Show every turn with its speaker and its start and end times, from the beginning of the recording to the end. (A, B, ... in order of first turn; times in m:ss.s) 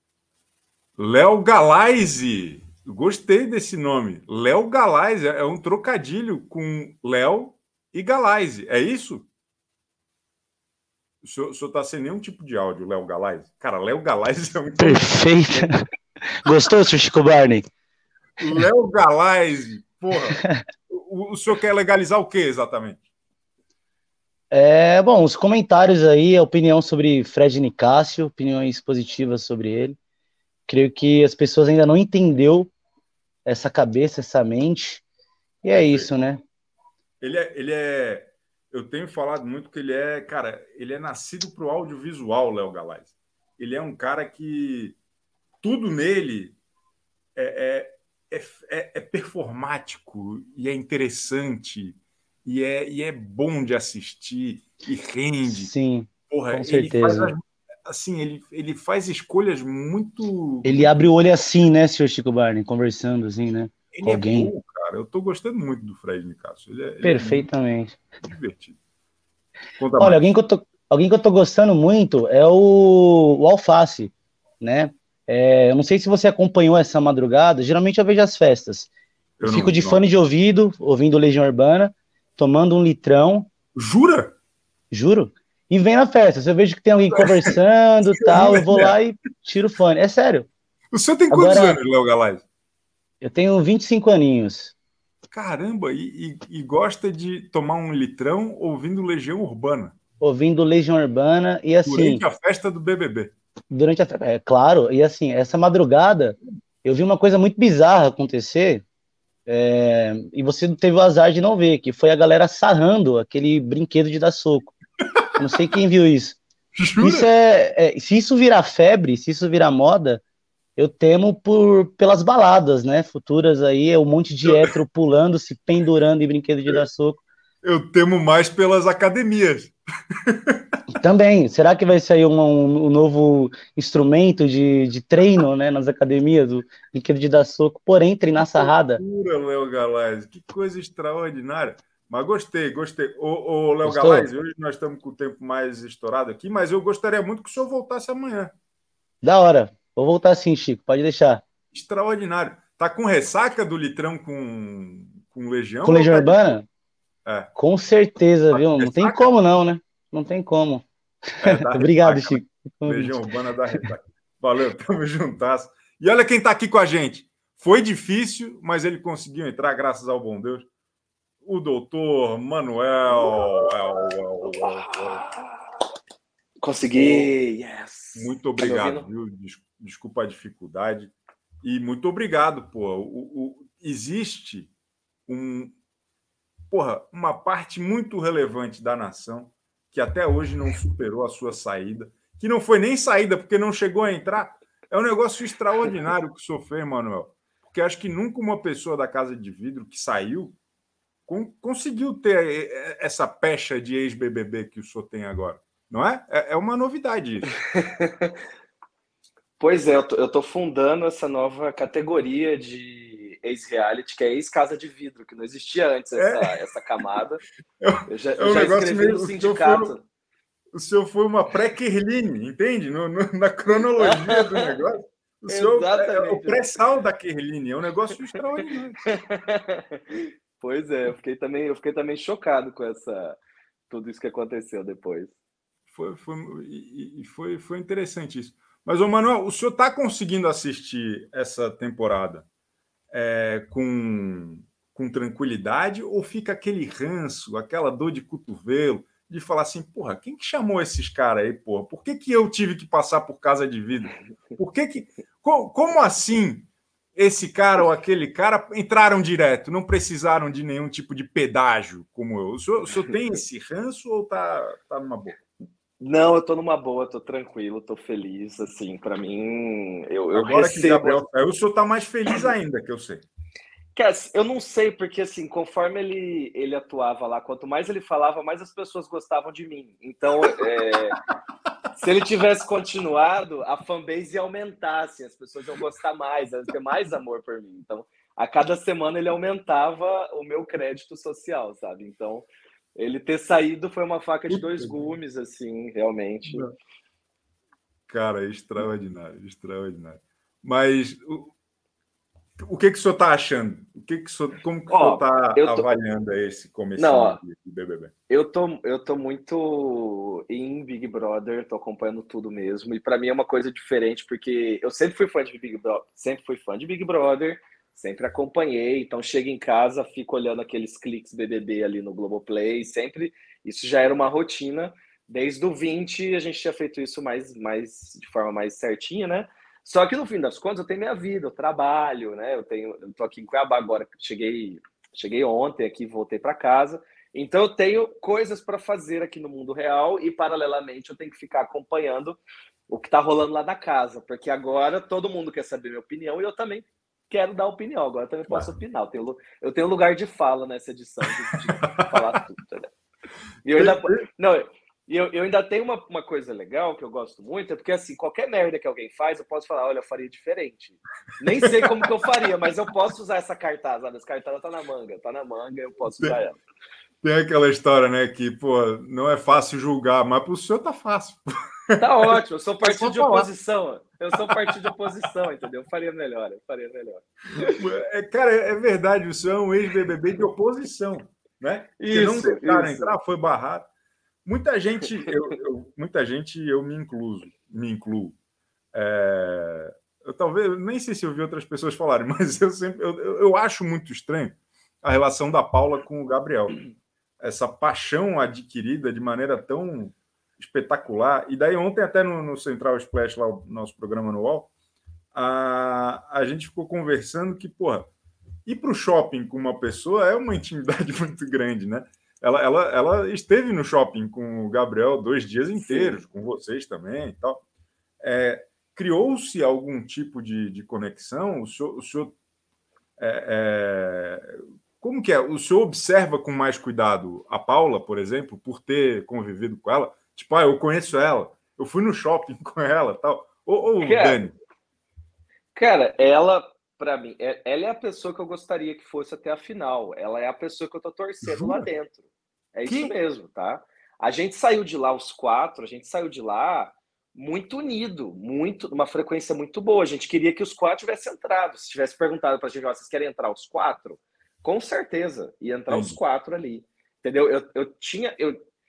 0:01.0-0:09.2 A
0:11.2-0:15.7 A
0:14.8-0:15.9 B
0:16.4-0:17.6 B
0:18.4-0:23.0 A
0:20.3-0:20.6 B
0:24.5-0:30.0 B
0:30.7-0:32.7 B
0:33.4-0:35.0 B
0:35.6-0:36.4 B
0:35.7-0:36.1 A
0:37.2-0:45.0 A
0:45.6-0:46.6 A
0:47.4-0:55.7 A
0:55.4-0:57.3 B
0:56.3-1:00.9 A
1:00.6-1:04.5 B
1:03.9-1:07.5 A
1:07.0-1:08.0 B
1:08.2-1:08.8 A
1:09.8-1:10.2 A
1:10.0-1:18.9 B
1:19.4-1:20.0 A
1:19.4-1:23.5 B
1:23.7-1:24.3 A
1:24.9-1:30.5 B
1:27.1-1:27.5 A
1:28.1-1:29.0 A
1:30.9-1:32.4 A
1:31.3-1:31.8 B
1:33.2-1:34.7 B
1:35.3-1:39.9 A
1:40.2-1:42.2 B
1:41.8-1:43.3 A
1:43.7-1:48.8 B
1:49.5-1:54.8 B
1:55.4-1:56.4 B
1:56.7-1:57.3 A
1:57.0-2:00.2 B
2:00.8-2:07.2 B
2:04.4-2:04.7 A
2:07.6-2:09.7 A
2:10.2-2:10.6 A
2:11.0-2:19.0 B
2:18.4-2:28.5 A
2:23.8-2:24.3 B
2:29.2-2:31.4 B
2:31.7-2:36.4 A
2:35.8-2:36.6 B
2:37.2-2:37.5 A
2:37.6-2:40.8 B
2:38.5-2:39.3 A
2:41.4-2:43.2 B
2:41.4-2:50.7 A
2:51.4-2:55.2 A
2:54.5-2:55.5 C
2:56.6-2:59.0 C
2:56.9-2:57.3 A
2:58.1-3:01.1 A
3:01.6-3:04.7 A
3:05.3-3:05.7 A
3:06.7-3:20.5 A
3:21.3-3:27.5 A
3:27.8-3:28.3 C
3:29.6-3:37.4 C
3:36.2-3:36.6 A
3:37.8-3:39.9 A
3:38.1-3:40.0 C
3:40.7-3:49.0 A
3:44.0-3:44.7 C
3:45.5-3:46.7 C
3:49.1-3:53.4 C
3:53.9-3:55.3 C
3:55.9-4:02.4 A
4:03.1-4:25.4 A
4:26.0-4:31.2 C
4:30.3-4:33.2 A
4:33.9-4:41.2 C
4:42.0-4:56.6 C
4:54.5-4:55.1 A
4:56.5-4:56.7 A
4:58.1-5:01.5 A
5:02.6-5:08.1 A
5:04.9-5:05.8 C
5:07.0-5:07.4 C
5:08.3-5:52.9 C
5:48.5-5:48.7 A
5:51.8-5:52.2 A
5:53.6-6:06.6 C
5:53.7-5:54.2 A
6:01.7-6:02.0 A
6:07.2-6:13.5 A
6:12.0-6:17.7 C
6:17.6-6:23.9 A
6:22.0-6:23.1 C
6:24.4-6:28.4 A
6:28.9-6:36.8 A
6:37.4-6:44.7 A
6:45.3-6:48.1 A
6:48.6-6:57.6 A
6:55.8-6:56.2 C
6:58.2-7:02.3 A
7:03.2-7:14.5 A
7:14.0-7:14.5 C
7:15.7-7:22.2 C
7:21.4-7:21.9 A
7:22.7-7:38.6 C
7:22.8-7:23.1 A
7:35.9-7:36.2 A